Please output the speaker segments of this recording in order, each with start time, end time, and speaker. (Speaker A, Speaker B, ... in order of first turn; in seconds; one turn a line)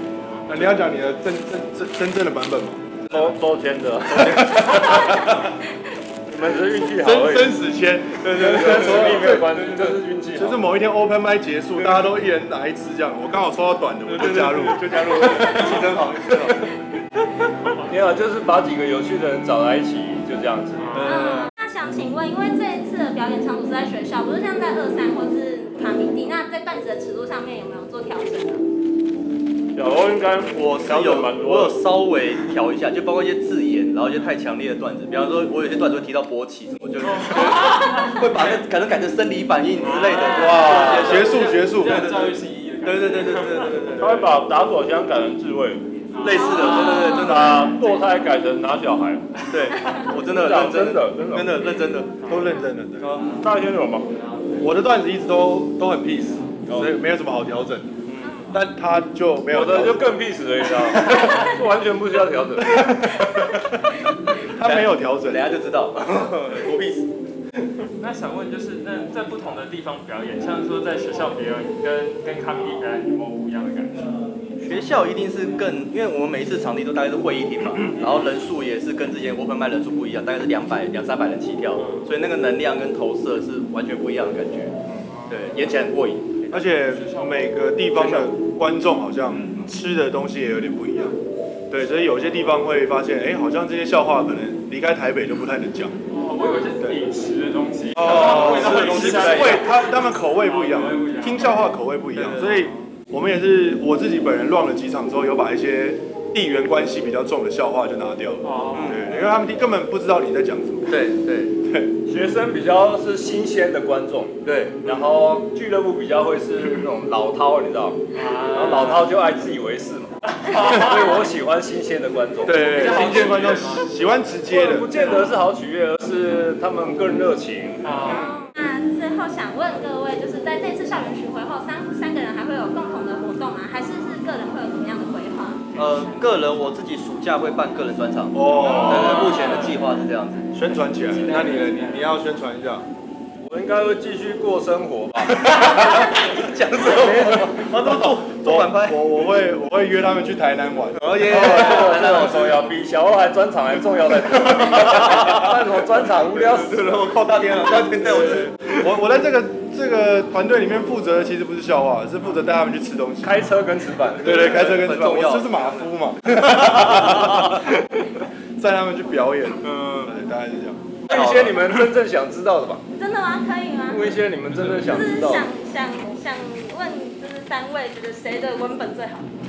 Speaker A: 0.5-2.8
Speaker B: 3.1-5.1
Speaker A: 4.1-5.5
Speaker B: 6.3-7.6
Speaker A: 7.0-9.6
Speaker C: 8.3-9.9
Speaker B: 8.3-10.6
Speaker A: 10.3-15.9
Speaker C: 14.1-16.7
Speaker B: 17.7-21.1
Speaker D: 20.8-21.1
Speaker C: 20.9-21.5
Speaker E: 21.0-28.6
Speaker B: 29.8-31.8
Speaker C: 30.5-44.2
Speaker D: 37.0-38.6
Speaker D: 39.8-44.2
Speaker A: 40.3-42.1
Speaker B: 40.6-41.1
Speaker B: 44.0-45.9
Speaker D: 46.1-47.5
Speaker C: 46.2-48.0
Speaker E: 46.2-47.4
Speaker B: 47.0-49.2
Speaker C: 49.5-52.4
Speaker B: 50.3-51.6
Speaker A: 52.2-53.1
Speaker C: 53.0-53.4
Speaker B: 53.4-54.1
Speaker A: 54.6-58.0
Speaker C: 56.7-56.9
Speaker C: 58.0-58.5
Speaker A: 58.5-60.1
Speaker B: 59.5-62.8
Speaker A: 60.8-61.4
Speaker A: 62.6-65.6
Speaker C: 64.6-67.1
Speaker D: 68.0-74.1
Speaker C: 74.6-84.7
Speaker D: 81.8-82.1
Speaker D: 85.1-85.8
Speaker C: 85.3-86.5
Speaker A: 86.5-91.2
Speaker D: 86.7-87.6
Speaker C: 88.0-88.3
Speaker A: 91.7-96.0
Speaker D: 96.1-101.7
Speaker A: 97.9-111.0
Speaker C: 98.0-99.8
Speaker C: 102.1-102.7
Speaker D: 108.4-109.3
Speaker C: 108.7-109.1
Speaker C: 110.9-111.6
Speaker A: 111.6-111.9
Speaker B: 112.0-114.3
Speaker C: 114.4-115.0
Speaker B: 114.8-118.0
Speaker D: 118.1-119.1
Speaker B: 118.5-123.3
Speaker D: 120.3-121.2
Speaker A: 122.4-125.1
Speaker D: 122.7-123.9
Speaker B: 124.5-127.9
Speaker D: 125.0-125.3
Speaker D: 127.8-128.3
Speaker E: 128.0-135.6
Speaker C: 135.7-140.4
Speaker A: 138.3-139.3
Speaker D: 138.5-139.9
Speaker A: 140.5-142.8
Speaker D: 140.6-142.1
Speaker B: 143.4-146.0
Speaker C: 145.3-149.0
Speaker B: 146.8-147.6
Speaker A: 147.7-152.1
Speaker C: 151.0-152.7
Speaker B: 151.2-157.2
Speaker C: 155.1-155.5
Speaker C: 156.3-158.7
Speaker A: 158.0-163.5
Speaker B: 163.2-164.8
Speaker C: 164.2-165.9
Speaker A: 164.2-167.9
Speaker C: 166.5-167.6
Speaker A: 168.6-170.9
Speaker C: 169.6-170.1
Speaker B: 171.1-172.8
Speaker C: 171.1-171.6
Speaker E: 172.9-174.2
Speaker B: 173.9-175.5
Speaker E: 174.8-179.3